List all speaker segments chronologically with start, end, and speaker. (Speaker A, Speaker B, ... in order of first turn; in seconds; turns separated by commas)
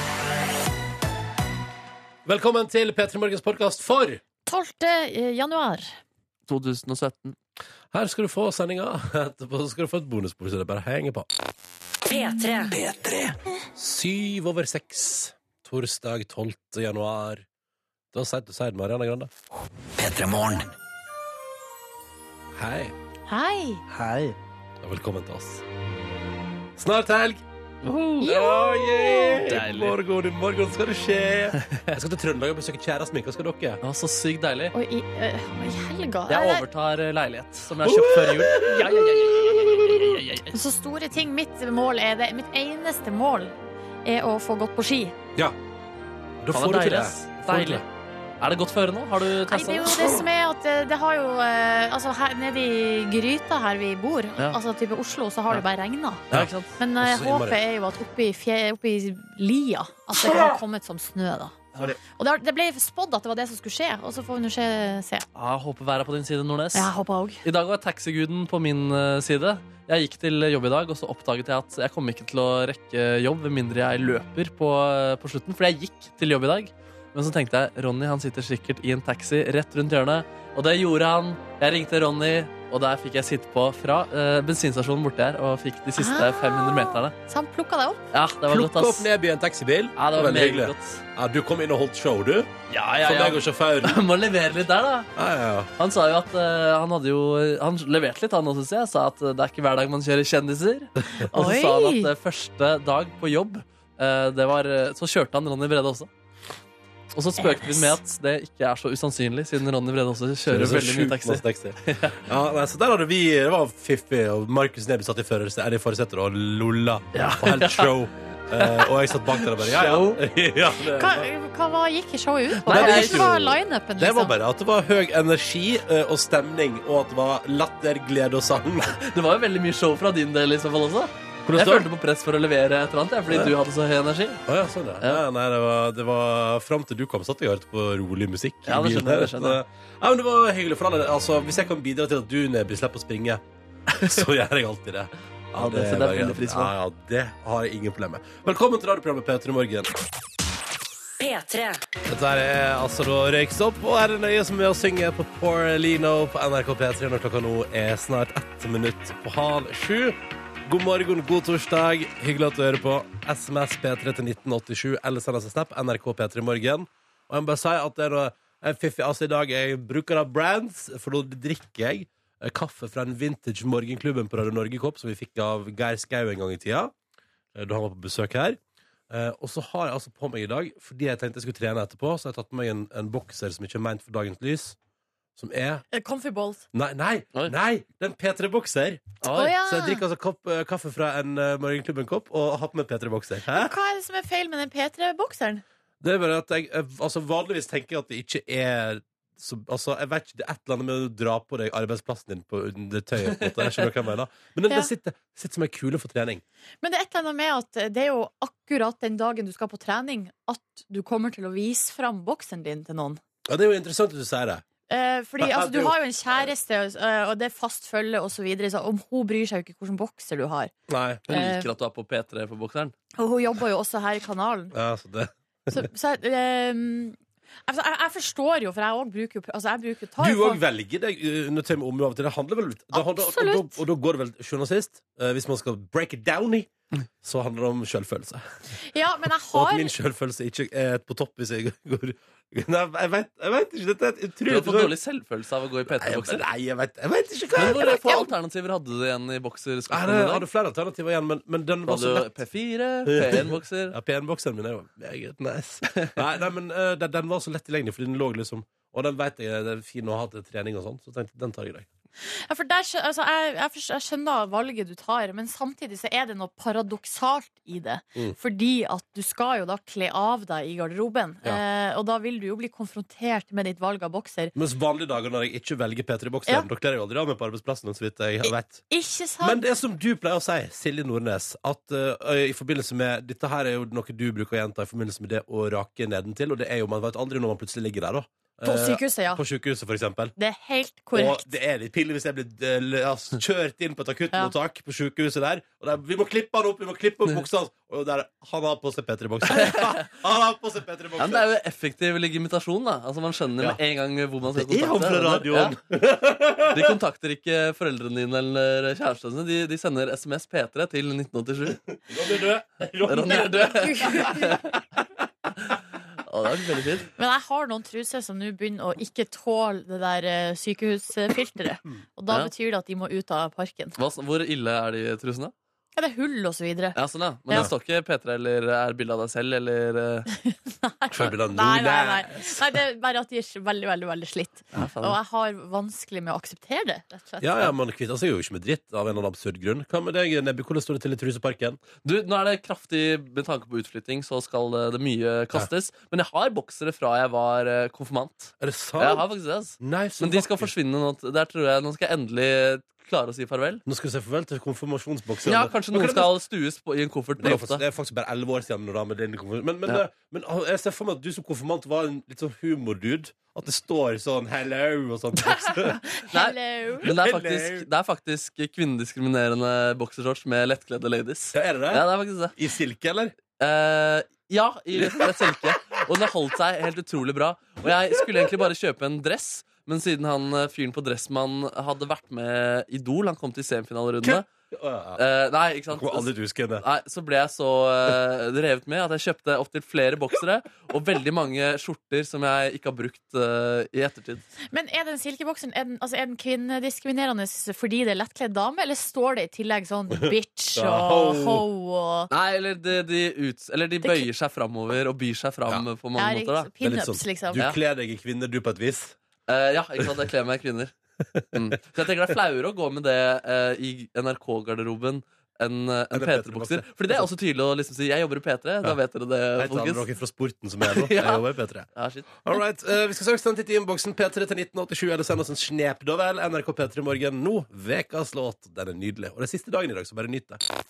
Speaker A: 2.2-4.2, Speaker B: 4.5-6.0, Speaker C: 6.5-7.3, Speaker A: 7.9-11.3, Speaker D: 12.0-13.3, Speaker A: 13.8-17.4, Speaker A: 18.1-19.3, Speaker D: 20.0-20.7, Speaker A: 22.5-22.9, Speaker B: 23.3-23.8, Speaker C: 23.9-24.4, Speaker A: 24.8-25.6, Speaker A: 26.8-27.4, Speaker C: 27.8-28.3, Speaker A: 28.1-33.8, Speaker B: 28.2-29.4, Speaker C: 29.4-30.0, Speaker C: 31.6-31.9, Speaker C: 33.8-34.7, Speaker B: 34.7-36.6, Speaker C: 36.3-40.5, Speaker A: 37.8-40.1, Speaker B: 40.5-43.5, Speaker B: 44.0-45.1, Speaker A: 46.4-47.8, Speaker C: 46.5-47.8, Speaker C: 48.4-50.1, Speaker B: 49.5-56.2, Speaker C: 56.3-56.8, Speaker A: 56.3-57.6, Speaker B: 56.8-65.2, Speaker A: 60.2-60.6, Speaker C: 65.3-66.9, Speaker B: 66.7-67.4, Speaker C: 67.4-87.1, Speaker B: 86.0-88.0, Speaker C: 88.1-89.1, Speaker A: 88.5-92.5, Speaker C: 90.0-91.0, Speaker C: 92.7-95.1, Speaker A: 93.0-94.0, Speaker A: 95.2-95.7, Speaker C: 95.8-106.1, Speaker B: 101.3-102.1, Speaker C: 107.1-112.2, Speaker B: 107.6-107.9, Speaker A: 110.5-121.3, Speaker C: 117.1-117.9, Speaker C: 118.5-120.2, Speaker B: 120.9-124.3, Speaker C: 122.7-123.5, Speaker A: 122.7-128.9, Speaker C: 128.9-134.4, Speaker A: 131.4-131.9, Speaker A: 133.3-133.5, Speaker A: 134.5-143.4, Speaker C: 138.7-139.6, Speaker C: 143.9-144.2, Speaker A: 144.0-149.9, Speaker C: 145.6-146.7, Speaker D: 151.2-151.8, Speaker A: 152.1-176.9, Speaker A: 177.5-178.6, Speaker A: 179.1-184.8, Speaker A: 185.3-185.8, Speaker B: 185.9-186.6, Speaker A: 186.7-193.7, Speaker C: 189.2-189.5, Speaker B: 189.3-190.0, Speaker B: 193.5-195.6, Speaker A: 196.0-206.4, Speaker C: 203.4-203.9, Speaker B: 206.8-213.2, Speaker A: 213.5-214.6, Speaker B: 214.9-220.7, Speaker A: 215.4-216.0, Speaker A: 220.9-221.3, Speaker C: 221.3-222.9, Speaker B: 221.3-221.7, Speaker B: 223.2-224.7, Speaker A: 224.7-225.9, Speaker B: 225.7-230.6, Speaker A: 230.2-236.7, Speaker B: 232.9-233.8, Speaker A: 237.2-238.4, Speaker B: 238.8-239.9, Speaker A: 239.5-244.9, Speaker C: 244.5-246.4, Speaker A: 245.8-248.3, Speaker C: 247.5-250.4, Speaker A: 249.9-252.3, Speaker C: 251.8-253.9, Speaker A: 253.1-261.9, Speaker B: 262.3-274.5, Speaker A: 274.5-278.8, Speaker B: 278.4-279.6, Speaker A: 279.4-290.3, Speaker B: 288.6-289.4, Speaker B: 290.4-291.4, Speaker A: 291.1-301.4, Speaker C: 299.5-300.1, Speaker C: 301.2-305.8, Speaker A: 304.5-306.9, Speaker C: 306.7-311.8, Speaker A: 311.7-314.6, Speaker C: 313.1-314.7, Speaker B: 313.3-314.6, Speaker C: 316.3-317.1, Speaker B: 317.2-323.9, Speaker C: 324.0-325.5, Speaker B: 325.9-327.0, Speaker C: 326.9-330.3, Speaker B: 330.4-337.7, Speaker A: 331.1-332.6, Speaker C: 334.7-335.2, Speaker A: 337.4-341.8, Speaker C: 342.0-353.8, Speaker A: 348.6-349.2, Speaker A: 349.8-350.7, Speaker A: 353.9-356.3, Speaker C: 355.4-357.8, Speaker A: 357.4-366.0, Speaker B: 365.6-367.1, Speaker C: 366.3-372.5, Speaker A: 367.0-367.9, Speaker A: 371.5-372.0, Speaker A: 372.5-373.3, Speaker C: 373.6-384.5, Speaker A: 374.9-375.7, Speaker A: 377.9-378.5, Speaker A: 384.2-385.2, Speaker C: 385.1-394.4, Speaker A: 385.9-386.8, Speaker B: 394.7-402.3, Speaker A: 400.7-401.6, Speaker C: 402.3-406.7, Speaker B: 404.0-404.3, Speaker B: 406.1-407.6, Speaker A: 406.8-409.2, Speaker C: 409.5-410.9, Speaker C: 411.5-420.0, Speaker A: 416.1-417.3, Speaker A: 419.6-430.6, Speaker C: 420.8-421.4, Speaker C: 421.9-422.6